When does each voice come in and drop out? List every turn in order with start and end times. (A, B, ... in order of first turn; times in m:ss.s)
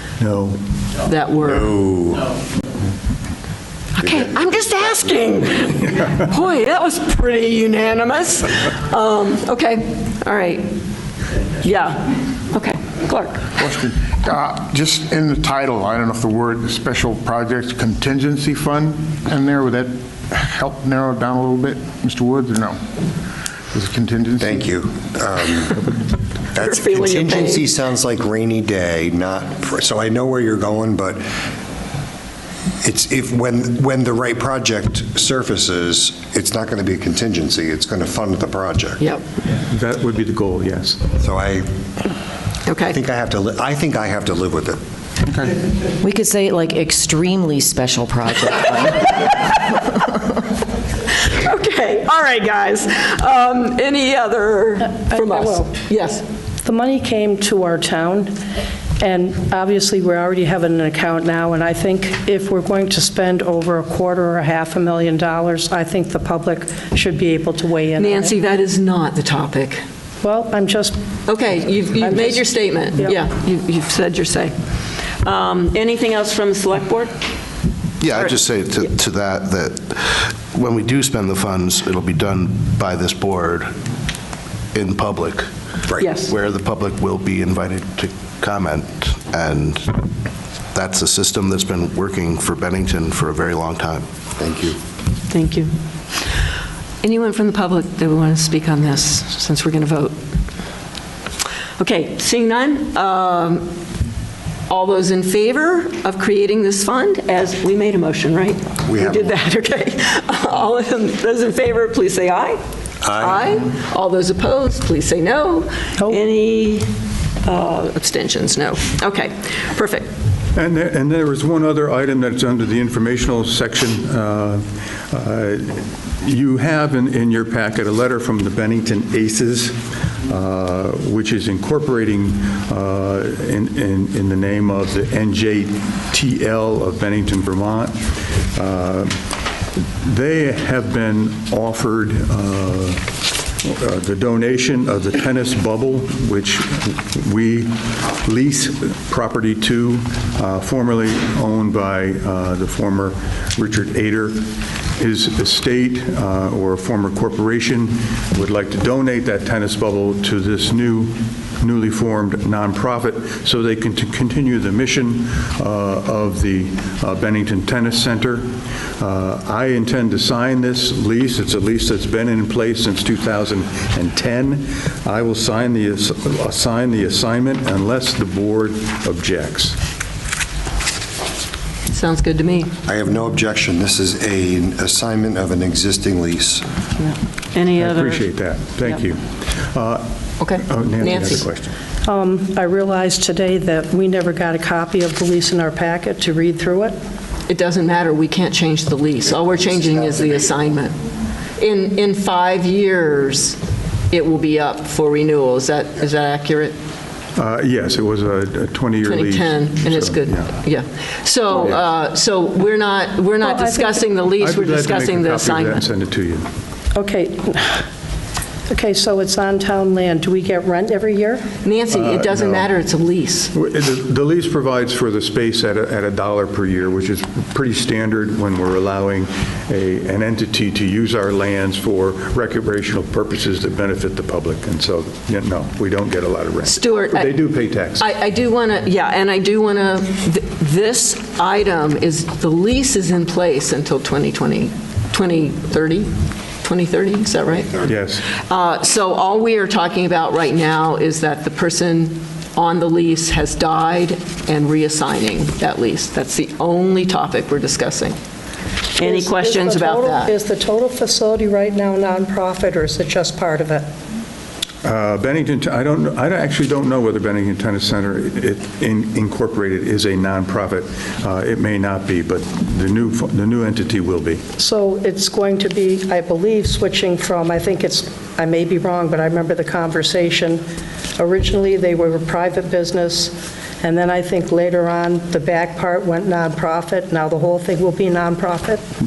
0:00.2-0:00.6 A
0:01.0-0:01.7 B
0:01.4-0:02.3 C
0:04.0-0:10.6 B
0:04.0-0:05.4 C
0:11.6-0:13.4 B
0:13.6-0:22.8 D
0:23.7-0:24.7 D
0:24.4-0:25.8 C
0:26.6-0:31.2 C
0:26.6-0:27.7 B
0:32.8-0:39.0 C
0:39.5-0:41.0 A
0:41.2-0:41.7 C
0:42.7-0:43.0 B
0:42.9-0:44.8 C
0:46.0-0:49.1 E
0:51.2-0:56.2 B
0:55.2-0:55.6 F
0:56.6-0:58.3 F
0:59.0-1:08.4 F
1:08.0-1:09.8 B
1:10.2-1:11.0 F
1:11.3-1:14.6 B
1:12.0-1:13.2 F
1:15.2-1:17.1 B
1:18.0-1:23.7 G
1:24.8-1:25.5 G
1:26.0-1:26.3 B
1:26.3-1:29.9 G
1:30.8-1:34.1 G
1:34.4-1:34.8 C
1:35.3-1:35.7 B
1:37.0-1:40.1 B
1:41.8-1:43.7 B
1:44.7-1:52.6 B
1:48.9-1:49.3 C
1:53.0-1:53.5 C
1:53.2-1:56.9 B
1:57.4-2:00.1 B
2:00.6-2:09.8 A
2:10.3-2:19.1 A
2:20.0-2:23.0 A
2:23.6-2:34.4 A
2:35.0-2:48.5 A
2:49.0-2:59.8 A
3:01.9-3:02.7 B
3:02.9-3:06.7 C
3:07.5-3:08.2 B
3:07.8-3:11.7 A
3:10.4-3:11.5 B
3:12.0-3:17.0 F
3:17.5-3:21.0 B
3:19.5-3:20.4 C
3:21.6-3:23.6 B
3:24.1-3:26.7 B
3:27.4-3:30.6 A
3:29.0-3:35.9 B
3:31.5-3:31.8 A
3:33.4-3:34.0 F
3:34.4-3:36.5 A
3:36.9-3:37.8 F
3:38.7-3:41.4 F
3:41.6-3:43.5 B
3:41.9-3:42.7 A
3:43.5-3:58.1 A
3:56.7-3:57.4 B
3:58.0-4:06.1 B
4:06.6-4:07.7 B
4:07.5-4:08.0 C
4:07.8-4:08.2 A
4:08.5-4:18.2 B
4:19.0-4:20.3 B
4:19.0-4:23.9 F
4:24.8-4:34.4 A
4:34.6-4:40.6 F
4:41.2-4:48.8 F